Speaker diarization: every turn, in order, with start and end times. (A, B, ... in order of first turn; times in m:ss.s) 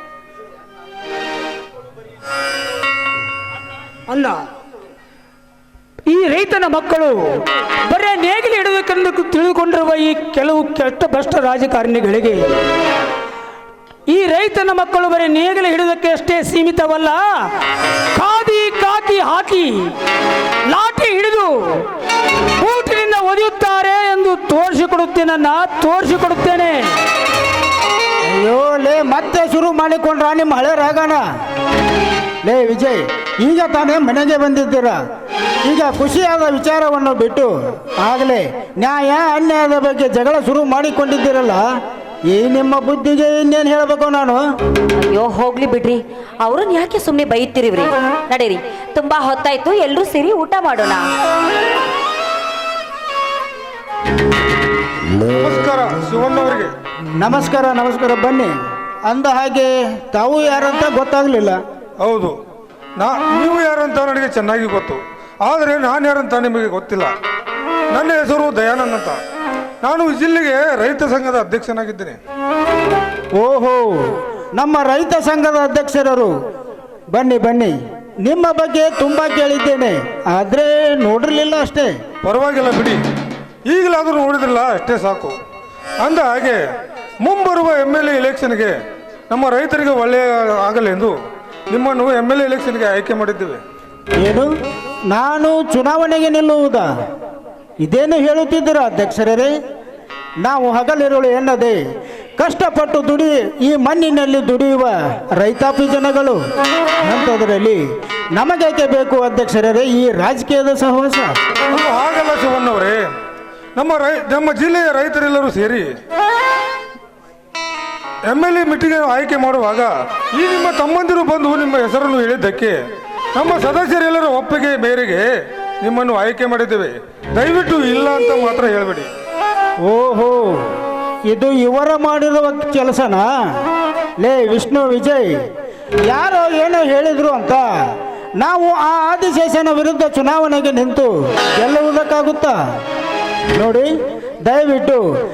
0:04.1-0:04.4 A
0:06.1-0:12.4 A
0:14.1-0:17.2 A
0:18.2-0:19.9 A
0:20.7-0:21.6 A
0:22.6-0:26.9 A
0:28.3-0:31.2 B
0:32.4-0:35.0 B
0:35.6-0:41.6 B
0:42.3-0:44.4 B
0:45.0-0:51.0 C
0:55.2-0:56.7 D
0:57.2-0:58.5 B
0:59.1-1:01.6 B
1:02.0-1:02.3 D
1:03.0-1:07.1 D
1:07.9-1:09.2 D
1:09.8-1:12.2 D
1:13.4-1:16.3 B
1:17.1-1:22.0 B
1:22.2-1:23.0 D
1:23.7-1:25.4 D
1:26.0-1:26.6 D
1:27.2-1:28.7 D
1:29.3-1:31.1 D
1:31.7-1:33.6 D
1:34.2-1:34.5 B
1:35.1-1:36.9 B
1:37.8-1:39.5 B
1:40.4-1:41.8 B
1:42.4-1:46.4 B
1:47.0-1:47.8 B
1:48.3-1:51.4 B
1:51.7-1:53.0 D
1:53.8-1:55.9 D
1:58.3-2:02.8 D
2:03.3-2:05.2 D
2:05.8-2:09.1 D
2:09.8-2:10.6 B
2:11.3-2:13.3 B
2:14.2-2:15.4 B
2:16.1-2:17.7 B
2:18.4-2:22.6 B
2:23.5-2:23.9 B
2:24.4-2:25.0 B